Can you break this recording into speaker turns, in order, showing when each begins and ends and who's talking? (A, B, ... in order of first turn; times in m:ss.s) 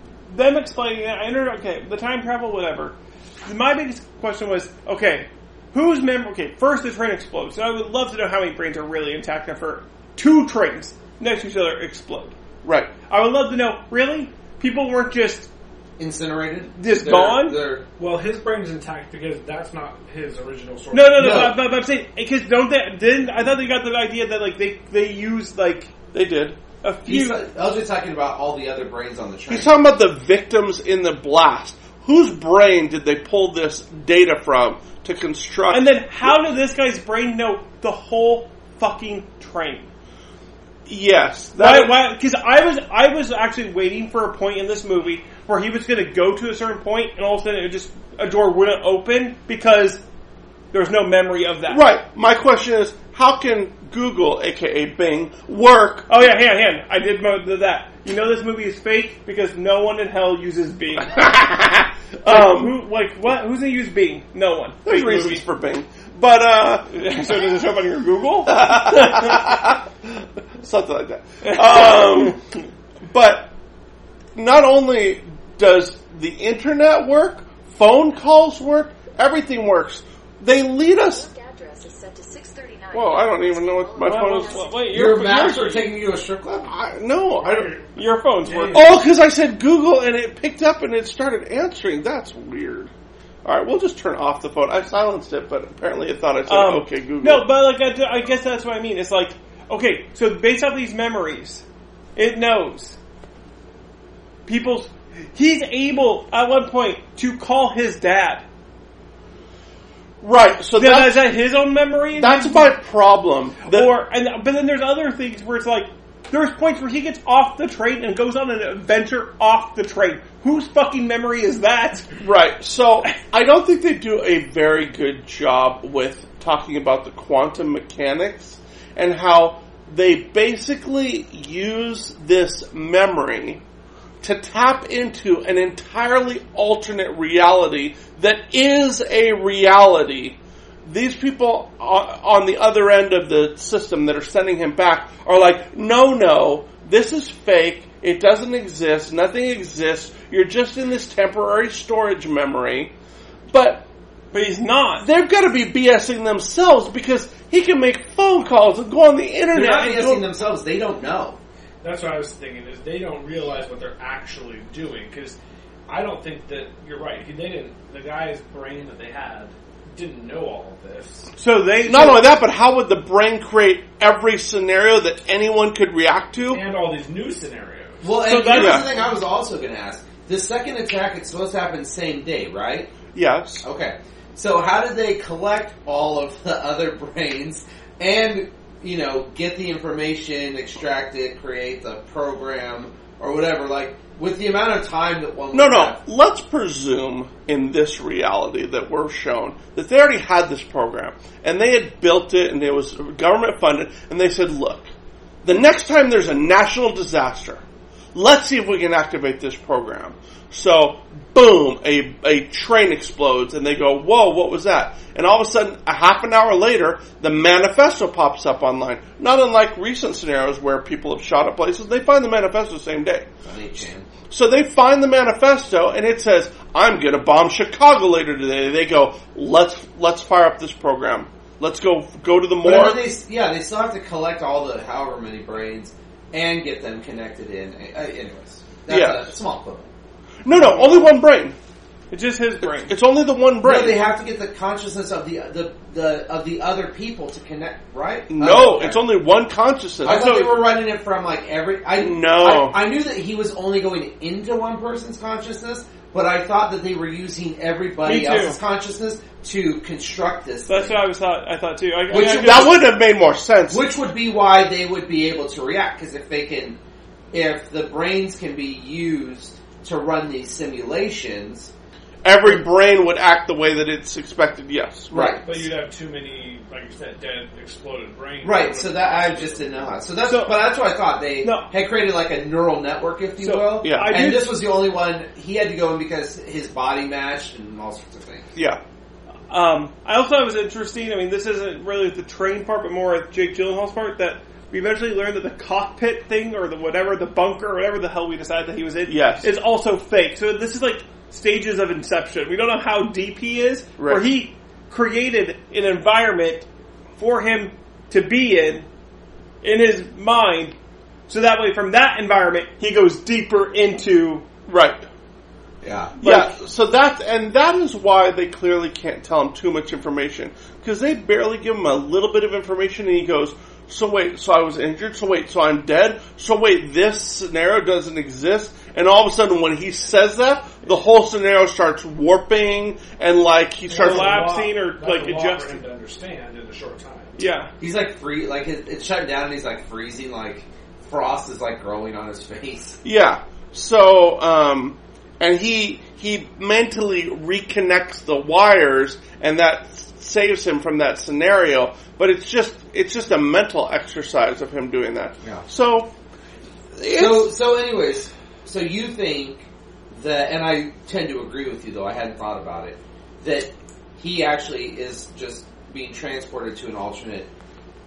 0:00.3-0:12.3 A
0:12.6-0:12.9 B
0:13.1-0:15.5 A
0:16.0-0:17.8 C
0:16.8-0:17.6 A
0:18.0-0:21.5 D
0:20.9-0:25.9 A
0:21.2-0:21.6 C
0:26.1-0:26.6 B
0:26.8-0:27.4 A
0:27.1-0:29.7 C
0:29.5-0:36.4 B
0:35.7-0:39.9 A
0:40.8-0:42.0 B
0:41.6-0:50.0 A
0:50.7-0:51.8 A
0:51.7-0:56.3 B
0:56.1-1:01.3 A
1:01.1-1:02.8 B
1:02.2-1:05.4 A
1:04.8-1:07.4 B
1:06.9-1:09.4 A
1:08.5-1:12.4 B
1:13.0-1:13.5 B
1:14.3-1:21.3 B
1:21.0-1:25.0 E
1:22.9-1:24.6 B
1:24.0-1:25.8 A
1:24.9-1:26.7 C
1:26.6-1:27.7 B
1:27.4-1:29.0 D
1:28.0-1:28.8 A
1:28.7-1:32.9 B
1:33.4-1:37.5 B
1:36.5-1:41.6 A
1:42.2-1:43.0 A
1:44.4-1:48.4 A
1:50.2-1:51.3 B
1:50.8-1:52.7 A
1:52.2-1:53.9 B
1:53.6-2:02.1 A
2:02.2-2:13.6 B
2:14.2-2:32.9 B
2:33.5-2:33.8 B
2:34.3-2:35.1 A
2:35.0-2:40.2 B
2:39.5-2:41.4 C
2:41.8-2:45.4 D
2:45.9-2:51.3 D
2:51.4-2:52.3 A
2:51.8-2:56.6 B
2:56.5-2:58.1 D
2:58.0-3:03.0 C
2:58.2-2:58.9 A
2:58.5-2:58.9 B
3:03.1-3:03.6 B
3:03.6-3:16.0 C
3:15.5-3:24.9 B
3:25.4-3:27.6 B
3:28.1-3:43.3 B
3:43.4-3:44.1 C
3:44.3-3:53.0 B
3:52.6-3:59.9 C
3:58.9-3:59.3 B
4:00.4-4:01.6 B
4:00.5-4:01.1 C
4:02.1-4:02.9 A
4:02.6-4:04.0 B
4:03.6-4:09.0 C
4:08.3-4:10.4 B
4:10.0-4:21.0 C
4:10.0-4:10.5 A
4:12.0-4:12.8 B
4:18.0-4:18.6 A
4:20.7-4:22.8 A
4:22.1-4:22.9 C
4:22.1-4:23.8 B
4:23.7-4:26.8 C
4:27.3-4:31.7 C
4:32.2-4:35.4 B
4:35.1-4:35.5 C
4:35.4-4:40.0 D
4:38.4-4:48.5 C
4:40.2-4:40.6 A
4:41.4-4:41.7 A
4:43.4-4:44.5 A
4:43.8-4:44.2 B
4:48.5-4:48.8 B
4:49.5-5:06.7 A
4:59.1-4:59.5 B
5:04.0-5:04.2 B
5:07.2-5:08.8 A
5:09.6-5:10.7 A
5:11.3-5:14.4 A
5:14.7-5:15.0 B
5:15.8-5:16.2 C
5:16.2-5:34.5 B
5:16.2-5:16.5 A
5:33.9-5:37.4 D
5:33.9-5:35.8 A
5:37.4-5:37.7 A
5:37.8-5:43.0 C
5:43.0-5:56.1 B
5:57.0-5:57.5 B
5:57.1-6:07.5 C